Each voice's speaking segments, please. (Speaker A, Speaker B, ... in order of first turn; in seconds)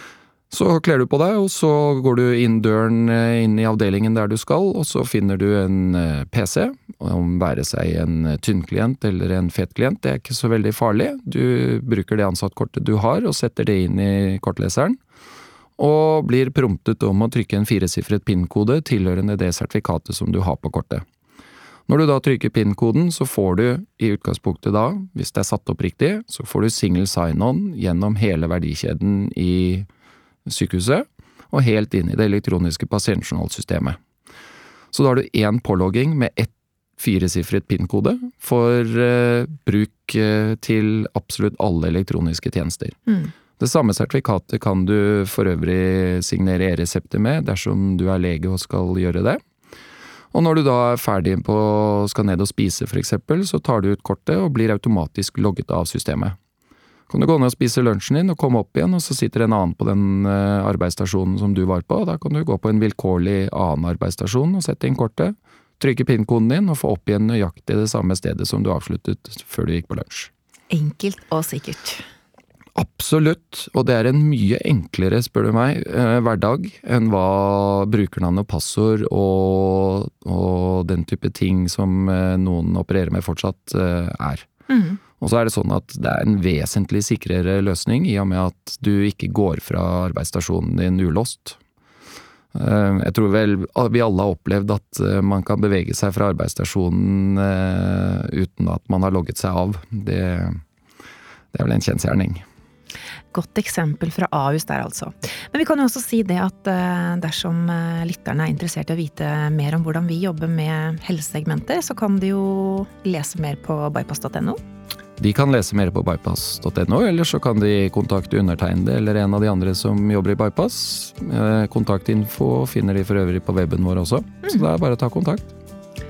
Speaker A: 0.5-15.0, 15.8-21.0, 21.9-29.9, 30.5-34.0, 34.9-43.0, 43.6-49.4, 50.3-56.4, 57.1-70.3, 72.8-84.5, 85.2-91.6, 92.5-100.6, 101.5-102.4, 115.2-125.5
Speaker B: 70.7-72.0, 84.7-85.0, 103.3-114.6